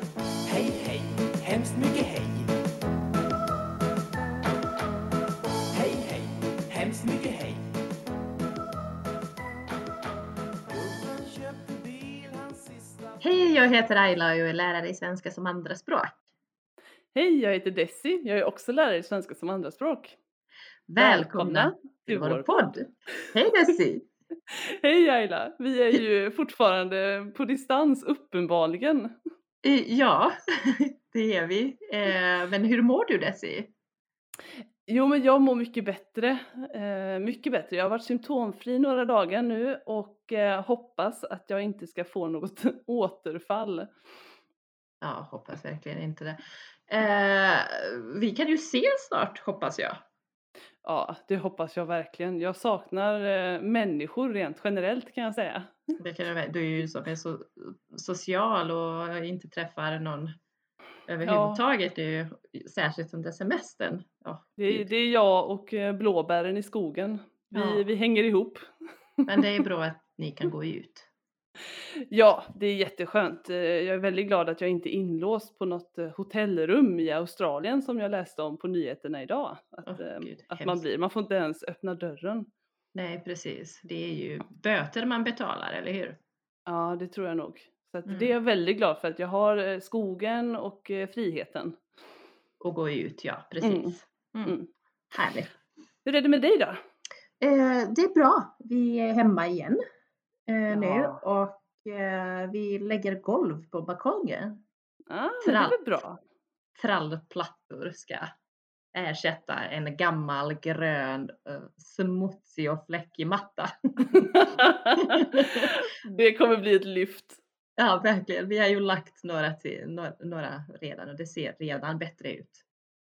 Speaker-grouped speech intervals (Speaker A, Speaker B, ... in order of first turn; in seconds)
Speaker A: 0.4-2.5, 5.7-7.6, 10.7-13.2
Speaker B: 13.2-16.2, 20.9-24.0, 29.6-33.7, 45.0-50.0, 56.0-60.3, 61.1-64.9, 67.5-67.8, 69.3-71.1, 79.8-80.8, 82.9-86.2, 88.0-88.3, 92.6-94.6, 95.1-95.5, 97.4-99.8, 100.5-104.6, 105.4-105.8, 106.8-108.2, 108.9-115.7, 117.8-122.6
Speaker C: 17.1-20.1, 21.0-22.7, 24.5-29.1, 34.8-43.9, 50.8-56.0, 61.2-61.6, 64.6-68.7, 72.1-82.5, 86.7-91.8, 93.6-94.7, 96.0-96.8, 100.7-101.2, 105.1-106.2, 114.3-117.4